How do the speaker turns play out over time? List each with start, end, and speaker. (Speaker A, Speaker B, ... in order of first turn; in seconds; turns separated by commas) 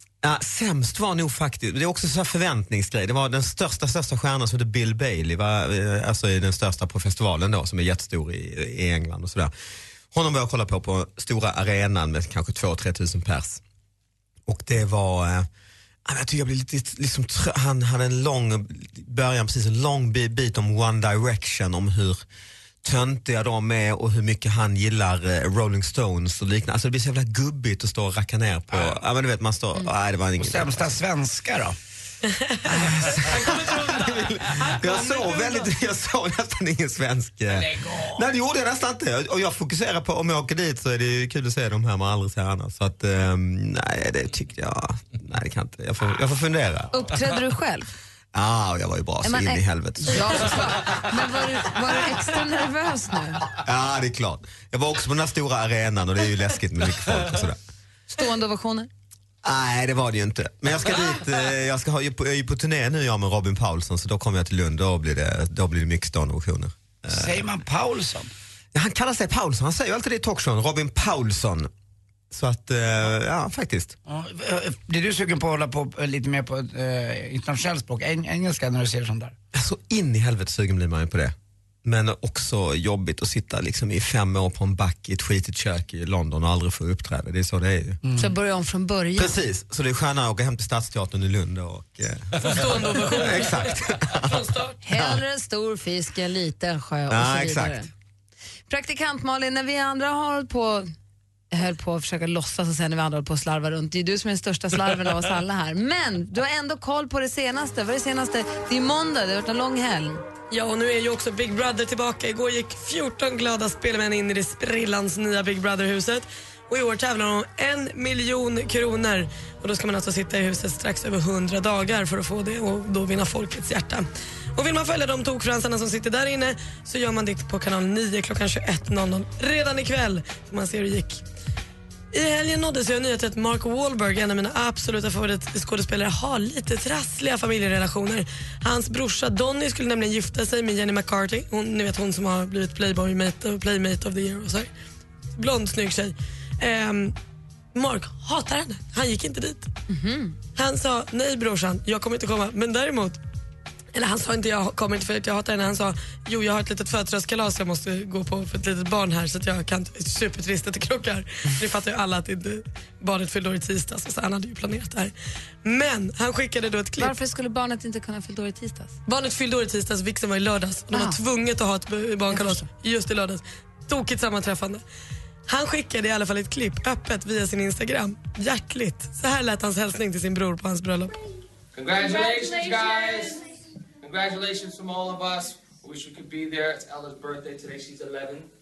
Speaker A: 0.2-9.5, Speaker A: 10.1-13.6, Speaker A: 14.5-15.4, Speaker A: 16.1-22.2, Speaker A: 22.8-30.9, Speaker B: 28.7-29.0, Speaker B: 30.4-31.8, Speaker C: 32.4-35.7, Speaker A: 32.6-47.2, Speaker B: 37.5-38.2, Speaker D: 46.9-47.9, Speaker A: 48.3-51.1, Speaker D: 49.2-53.5, Speaker A: 53.5-57.6, Speaker D: 58.1-58.9, Speaker A: 59.4-67.4, Speaker B: 67.1-68.3, Speaker A: 68.7-71.7, Speaker A: 72.3-73.9, Speaker B: 74.0-79.3, Speaker A: 79.5-88.0, Speaker B: 88.0-88.3, Speaker D: 88.2-89.4, Speaker A: 89.2-95.2, Speaker C: 92.4-94.8, Speaker D: 94.8-97.9, Speaker A: 97.1-97.8, Speaker D: 98.7-100.9, Speaker D: 101.5-110.2, Speaker C: 110.5-131.2, Speaker C: 132.1-144.7, Speaker C: 145.3-147.1, Speaker C: 147.7-149.7, Speaker D: 149.9-150.3, Speaker C: 150.6-153.2, Speaker C: 153.9-165.1, Speaker C: 165.6-167.1, Speaker D: 167.0-168.9, Speaker C: 169.1-174.8, Speaker D: 170.9-171.2, Speaker D: 172.3-172.6, Speaker C: 175.5-181.2, Speaker E: 181.7-183.4, Speaker E: 184.0-188.5